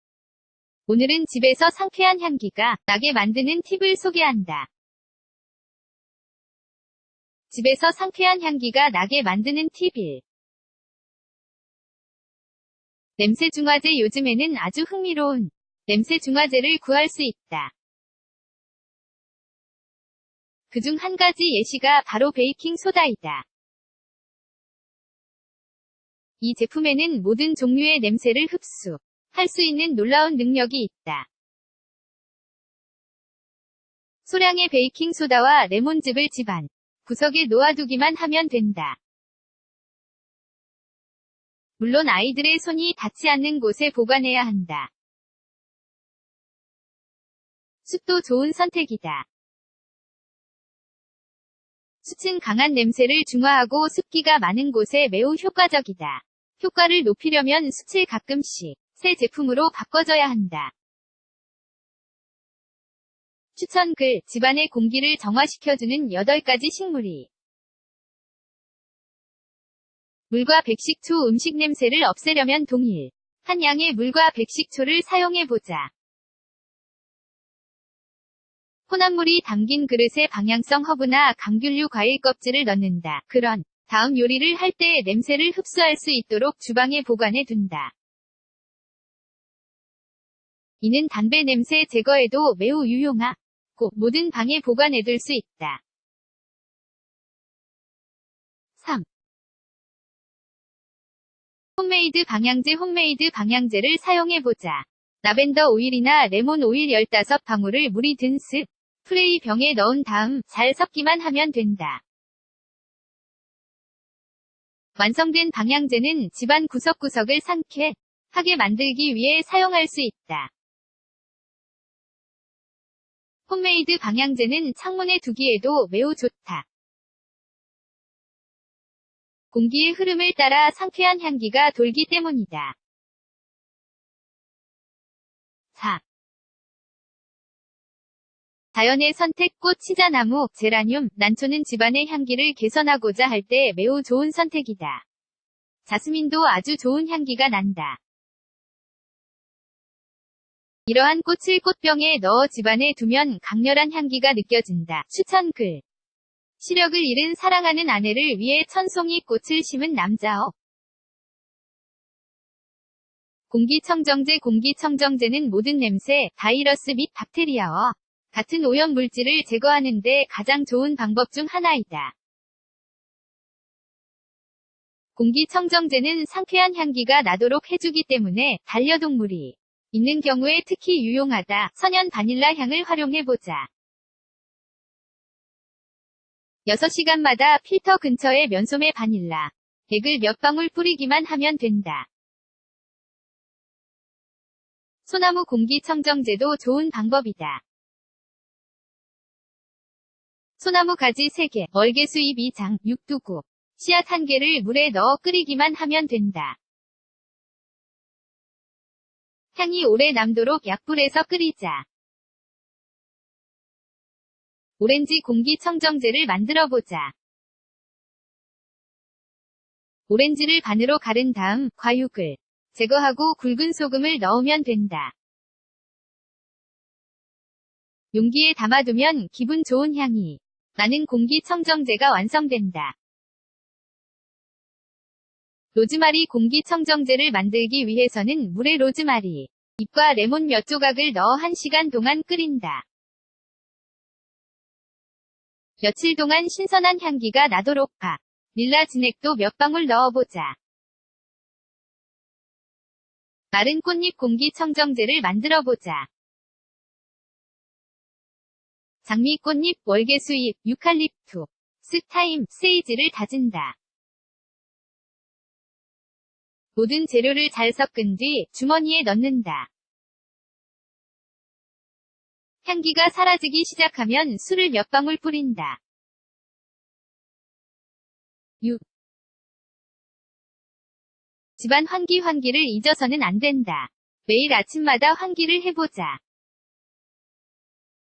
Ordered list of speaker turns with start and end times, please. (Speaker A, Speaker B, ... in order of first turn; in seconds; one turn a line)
Speaker A: 0.9-4.7
Speaker A: 7.5-10.2
Speaker A: 13.2-17.7
Speaker A: 20.7-23.4
Speaker A: 26.4-31.3
Speaker A: 34.2-39.0
Speaker A: 41.8-44.9
Speaker A: 47.9-49.3
Speaker A: 52.0-60.7
Speaker A: 63.5-67.3
Speaker A: 70.3-75.9
Speaker A: 78.9-87.9
Speaker A: 90.8-95.8
Speaker A: 98.8-99.0
Speaker A: 101.8-112.0
Speaker A: 115.0-120.5
Speaker A: 123.5-126.7
Speaker A: 129.5-132.8
Speaker A: 135.8-136.0
Speaker A: 138.7-145.0
Speaker A: 145.9-148.0
Speaker A: 150.9-155.8
Speaker A: 156.6-160.5
Speaker A: 163.5-172.1
Speaker A: 175.2-183.7
Speaker A: 186.7-192.1
Speaker A: 195.1-197.6
Speaker A: 200.6-206.6
Speaker A: 209.6-211.8
Speaker A: 214.8-217.1
Speaker A: 220.1-225.1
Speaker A: 228.1-232.9
Speaker A: 235.8-242.8
Speaker A: 245.8-250.6
Speaker A: 253.5-256.1
Speaker A: 259.1-263.8
Speaker A: 266.8-269.7
Speaker A: 272.6-275.8
Speaker A: 281.6-286.2